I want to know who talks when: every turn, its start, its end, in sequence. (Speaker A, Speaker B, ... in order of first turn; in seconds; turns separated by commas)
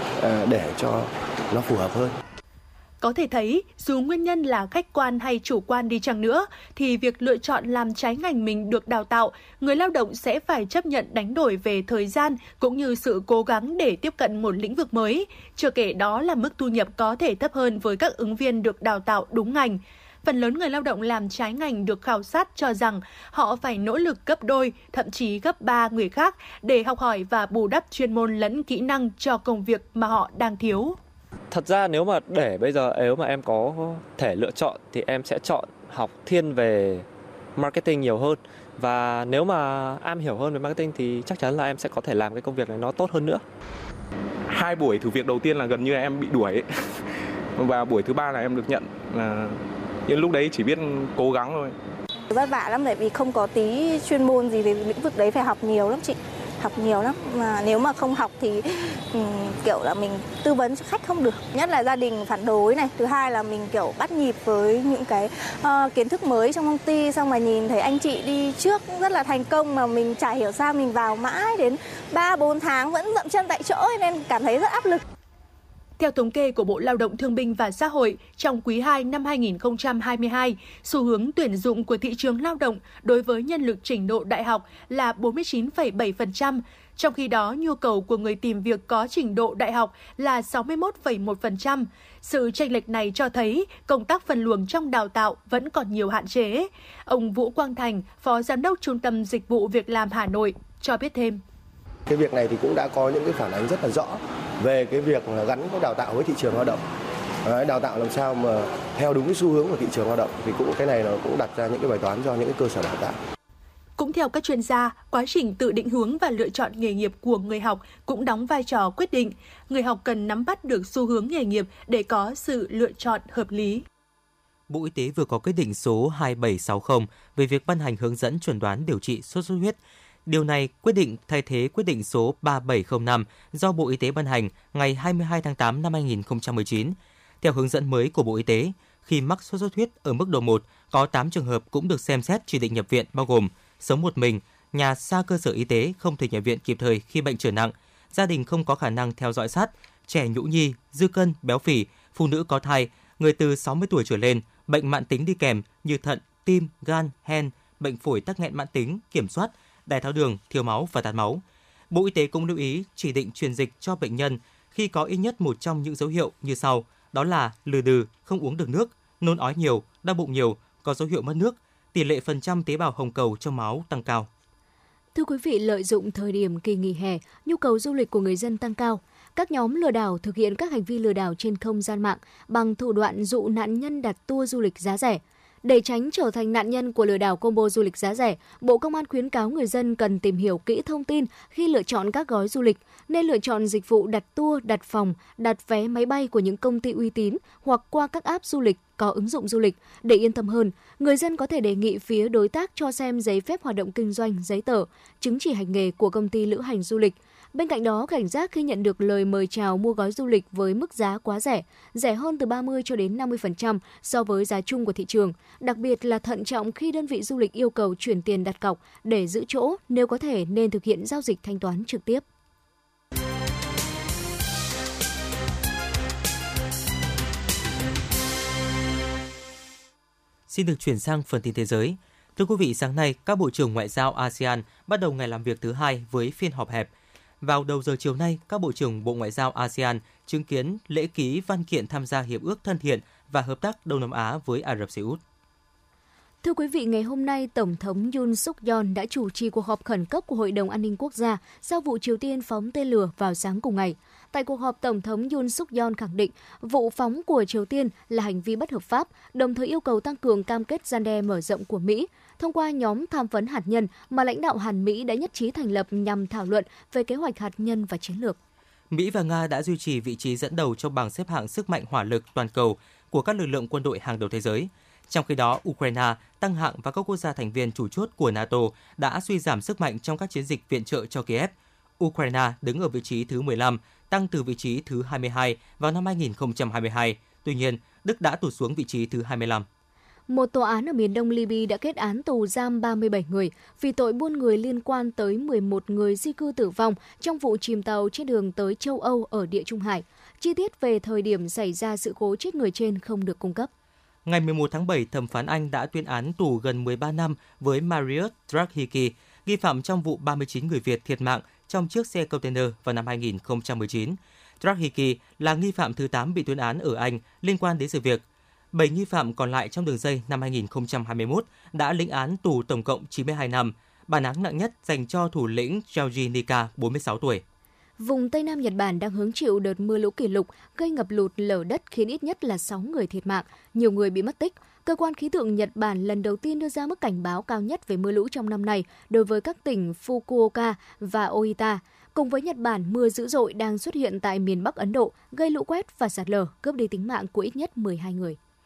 Speaker A: 0.2-2.2, Speaker B: 3.0-31.0, Speaker C: 31.5-43.4, Speaker D: 44.5-47.0, Speaker D: 47.6-51.8, Speaker E: 52.3-75.0, Speaker B: 76.0-101.4, Speaker A: 102.1-106.8, Speaker A: 107.4-113.2, Speaker B: 114.0-123.8, Speaker F: 124.7-174.3, Speaker G: 175.2-222.2, Speaker F: 230.5-245.2, Speaker G: 246.4-268.4, Speaker F: 268.9-289.7, Speaker G: 290.3-303.7, Speaker F: 304.2-327.4, Speaker G: 328.0-348.4